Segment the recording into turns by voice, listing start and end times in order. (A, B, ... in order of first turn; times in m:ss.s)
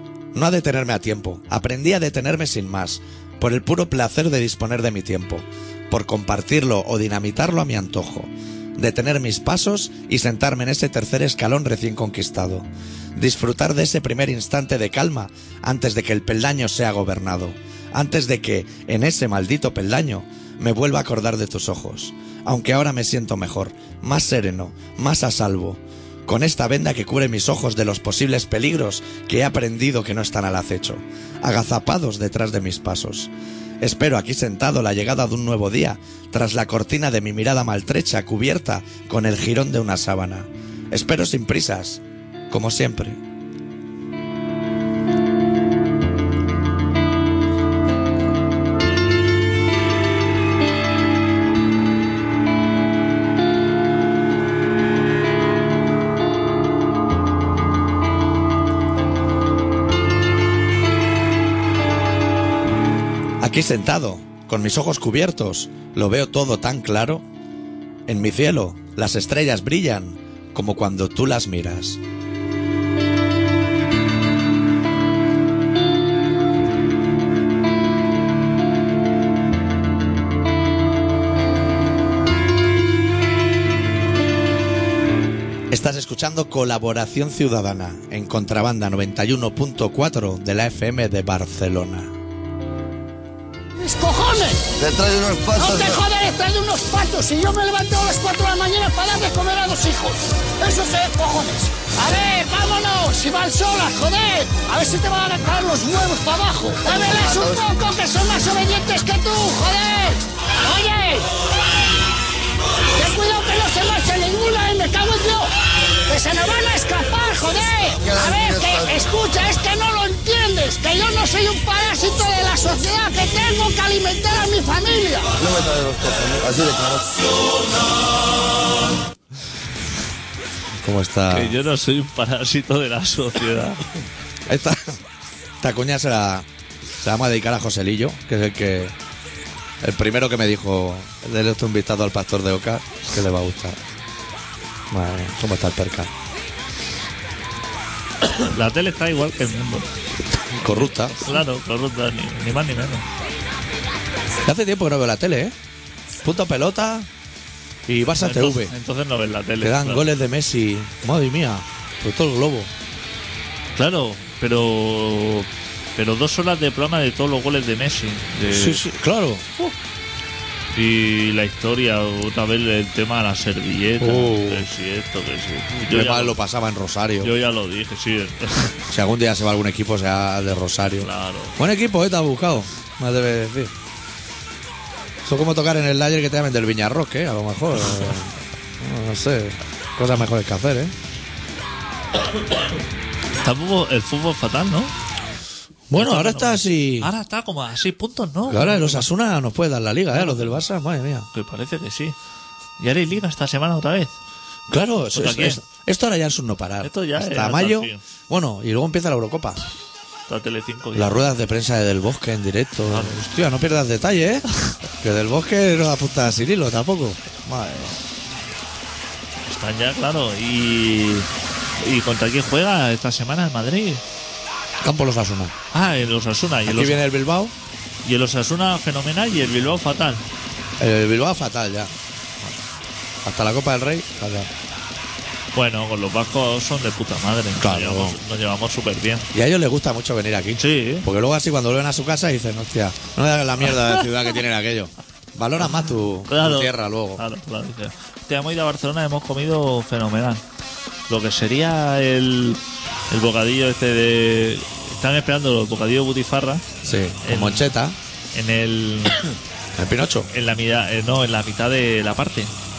0:00.3-0:43.2 A
1:03.4-1:07.2 A
1:08.1-1:12.0 A
1:25.7-1:32.1 A
1:33.8-1:34.7 B
1:34.8-1:36.0 C
1:35.6-1:51.3 B
1:53.0-1:55.5 B
1:56.0-2:05.3 B
1:58.2-1:58.7 C
2:05.4-2:07.2 C
2:10.7-2:11.6 A
2:11.3-2:13.8 D
2:14.5-2:15.0 A
2:15.6-2:16.5 A
2:17.0-2:18.9 A
2:19.8-2:23.8 A
2:24.9-2:26.1 A
2:28.3-2:29.9 D
2:30.5-2:31.4 A
2:30.7-2:33.0 D
2:34.4-2:35.5 A
2:36.2-2:37.1 A
2:37.9-2:38.7 A
2:38.2-2:40.0 D
2:39.6-2:42.7 A
2:43.7-2:48.9 D
2:48.5-2:49.6 A
2:50.7-2:56.4 D
2:54.0-2:54.6 A
2:55.7-2:57.3 A
2:57.2-2:58.8 D
2:58.9-3:03.7 A
3:01.0-3:01.6 D
3:05.2-3:10.9 A
3:13.4-3:14.9 D
3:15.9-3:17.1 A
3:15.9-3:19.1 D
3:18.5-3:21.3 A
3:20.1-3:20.6 D
3:21.3-3:22.2 D
3:22.8-3:24.2 D
3:24.7-3:29.6 A
3:25.1-3:25.6 D
3:26.8-3:28.0 D
3:30.3-3:31.2 D
3:30.9-3:34.4 A
3:32.9-3:33.2 D
3:35.0-3:38.0 A
3:39.4-3:41.3 D
3:41.8-3:44.0 D
3:44.8-3:45.5 A
3:45.7-3:47.0 D
3:46.7-3:47.5 A
3:48.0-3:50.2 D
3:50.8-3:51.9 A
3:53.2-3:54.5 A
3:55.5-3:59.3 D
3:57.6-3:58.2 A
3:59.3-4:07.2 A
4:00.6-4:01.1 D
4:06.3-4:10.4 D
4:11.1-4:17.7 D
4:16.8-4:18.0 A
4:18.3-4:19.3 D
4:19.8-4:20.3 A
4:20.3-4:22.5 D